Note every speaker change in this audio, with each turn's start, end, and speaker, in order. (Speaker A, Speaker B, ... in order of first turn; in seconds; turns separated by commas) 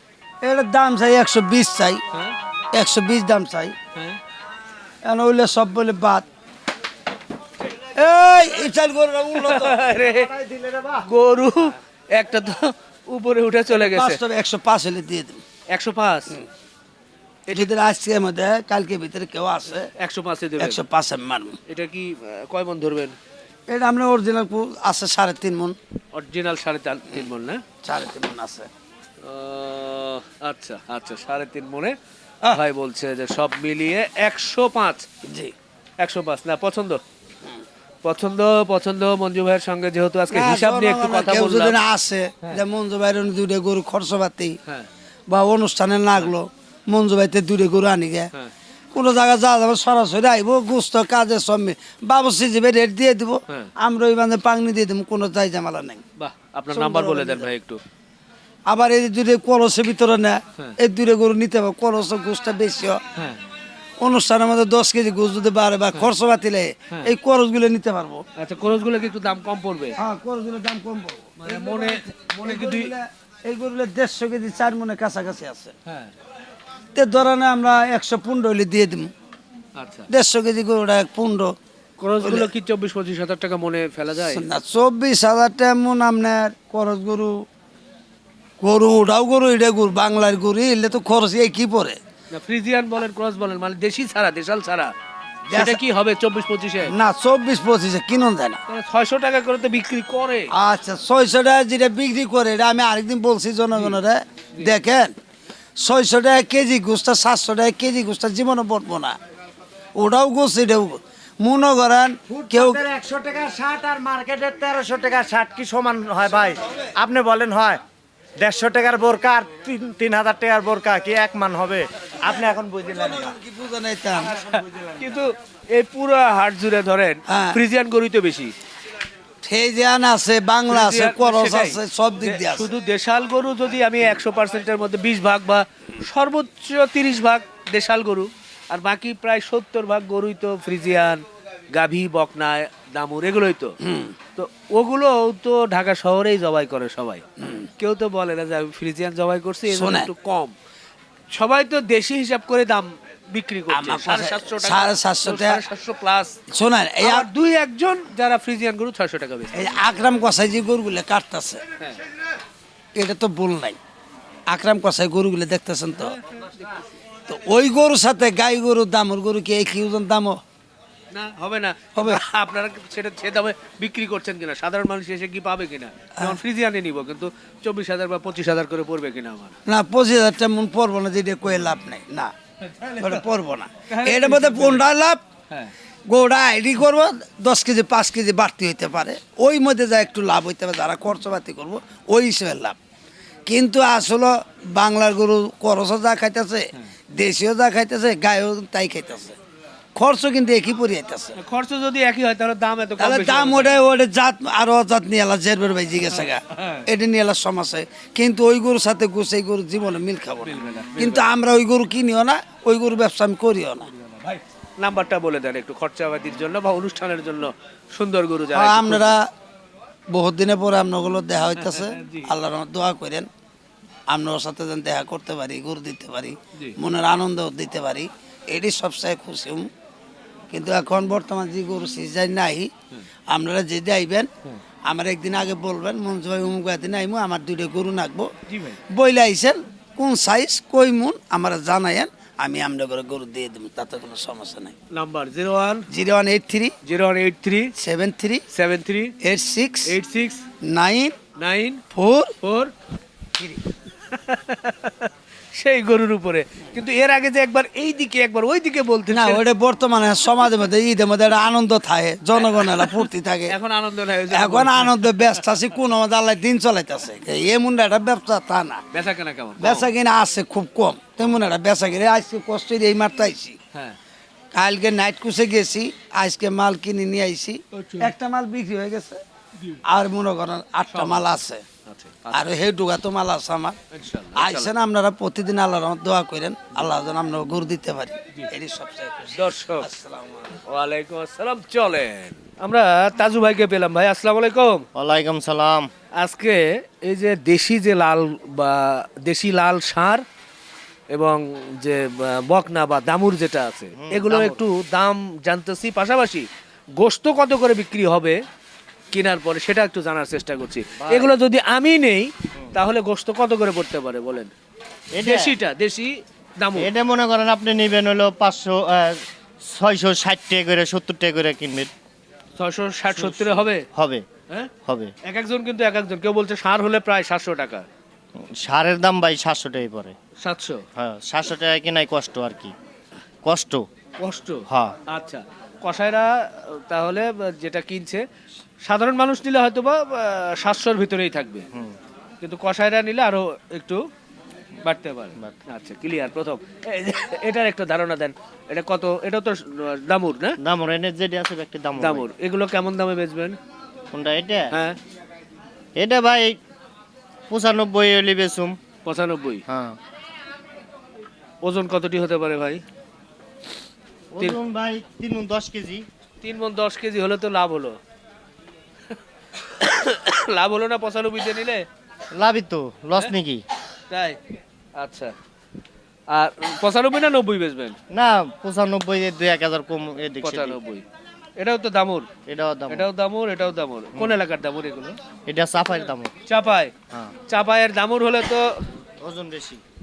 Speaker A: 0.4-2.0, Speaker A: 2.7-3.8, Speaker A: 5.0-6.3, Speaker A: 7.9-11.0, Speaker B: 9.4-10.3, Speaker B: 11.1-14.2, Speaker A: 13.7-15.4, Speaker B: 15.7-16.4, Speaker A: 17.5-19.9, Speaker B: 20.0-20.8, Speaker A: 20.6-21.6, Speaker B: 21.7-23.2, Speaker A: 23.7-25.8, Speaker B: 26.1-27.6, Speaker A: 27.8-28.7, Speaker B: 29.2-31.9, Speaker B: 32.5-35.1, Speaker A: 35.2-35.5, Speaker B: 36.0-37.0, Speaker B: 38.0-41.8, Speaker A: 40.3-44.6, Speaker A: 45.3-48.3, Speaker A: 48.9-56.0, Speaker B: 56.2-57.8, Speaker A: 56.7-57.5, Speaker A: 58.7-63.0, Speaker A: 64.0-68.2, Speaker B: 68.4-70.0, Speaker A: 70.0-75.7, Speaker B: 71.4-72.9, Speaker B: 75.9-76.1, Speaker A: 77.0-79.1, Speaker B: 79.8-80.1, Speaker A: 80.1-81.5, Speaker B: 82.0-84.4, Speaker A: 82.2-82.5, Speaker A: 84.2-87.4, Speaker A: 88.6-92.0, Speaker B: 92.3-94.9, Speaker A: 95.5-95.8, Speaker B: 95.5-96.9, Speaker A: 96.8-98.6, Speaker B: 98.7-100.5, Speaker A: 100.5-105.1, Speaker A: 105.8-109.2, Speaker A: 110.0-112.8, Speaker C: 112.3-117.8, Speaker C: 118.4-123.3, Speaker A: 122.3-124.4, Speaker B: 124.4-128.5, Speaker A: 127.3-127.6, Speaker A: 129.4-132.7, Speaker B: 130.7-143.7, Speaker A: 143.8-144.2, Speaker B: 144.4-147.2, Speaker A: 147.4-147.7, Speaker B: 147.8-150.5, Speaker A: 149.7-150.1, Speaker B: 151.3-156.4, Speaker A: 153.7-155.6, Speaker A: 156.5-157.3, Speaker B: 157.0-159.5, Speaker A: 159.5-161.6, Speaker A: 163.0-163.8, Speaker A: 164.5-166.2, Speaker B: 166.0-166.8, Speaker A: 167.3-170.4, Speaker B: 171.1-179.6, Speaker A: 172.0-172.2, Speaker A: 179.7-182.3, Speaker B: 182.6-183.2, Speaker A: 183.0-185.2, Speaker B: 183.9-184.9, Speaker A: 186.1-192.8, Speaker A: 193.5-199.4, Speaker A: 200.0-201.4, Speaker B: 201.4-203.8, Speaker A: 203.0-213.9, Speaker B: 206.1-206.9, Speaker B: 210.4-211.2, Speaker B: 213.9-219.2, Speaker A: 218.5-219.3, Speaker A: 220.1-223.3, Speaker B: 221.6-222.3, Speaker A: 224.1-229.7, Speaker A: 230.5-232.7, Speaker A: 233.3-234.3, Speaker A: 234.9-238.3, Speaker B: 238.5-238.8, Speaker A: 238.9-244.8, Speaker B: 244.9-245.9, Speaker A: 245.9-246.7, Speaker B: 246.8-247.7, Speaker A: 247.8-248.4, Speaker B: 248.5-249.2, Speaker A: 249.2-250.0, Speaker B: 249.9-250.4, Speaker A: 250.6-251.2, Speaker B: 251.4-251.8, Speaker A: 251.9-252.3, Speaker B: 252.4-252.7, Speaker B: 254.1-259.4, Speaker A: 259.1-263.6, Speaker B: 262.5-265.3, Speaker A: 264.3-268.8, Speaker B: 268.9-269.9, Speaker A: 269.6-273.6, Speaker A: 274.5-279.2, Speaker B: 277.7-278.1, Speaker A: 279.9-281.6, Speaker B: 280.9-281.2, Speaker B: 281.9-282.5, Speaker A: 282.3-283.8, Speaker B: 283.9-284.7, Speaker A: 284.4-290.6, Speaker B: 289.4-289.9, Speaker B: 290.6-294.9, Speaker D: 295.0-295.9, Speaker B: 296.2-300.2, Speaker B: 301.1-306.5, Speaker D: 304.0-304.6, Speaker B: 307.0-308.4, Speaker B: 309.1-314.5, Speaker D: 311.0-311.3, Speaker D: 315.2-315.5, Speaker B: 315.2-316.9, Speaker D: 316.8-321.9, Speaker B: 322.6-323.9, Speaker D: 323.1-324.2, Speaker D: 324.9-325.1, Speaker B: 325.2-327.9, Speaker D: 328.4-330.1, Speaker B: 330.4-330.8, Speaker D: 331.0-332.7, Speaker D: 333.4-333.9, Speaker B: 334.2-338.2, Speaker D: 334.7-334.9, Speaker B: 338.9-341.6, Speaker B: 342.4-344.0, Speaker B: 344.9-350.6, Speaker D: 350.6-352.3, Speaker B: 352.0-353.6, Speaker D: 354.1-354.7, Speaker B: 354.7-355.0, Speaker D: 356.0-356.6, Speaker D: 357.5-358.8, Speaker B: 359.1-359.6, Speaker D: 359.7-360.0, Speaker B: 361.6-362.8, Speaker D: 364.3-366.1, Speaker B: 366.4-368.0, Speaker B: 369.8-371.9, Speaker D: 372.3-373.6, Speaker B: 374.1-374.4, Speaker B: 375.0-375.3, Speaker B: 376.3-378.0, Speaker D: 378.1-380.8, Speaker B: 380.4-381.0, Speaker B: 381.6-382.3, Speaker D: 382.5-383.1, Speaker B: 382.9-385.2, Speaker D: 385.5-386.3, Speaker B: 386.5-386.9, Speaker B: 387.5-388.8, Speaker D: 389.2-389.8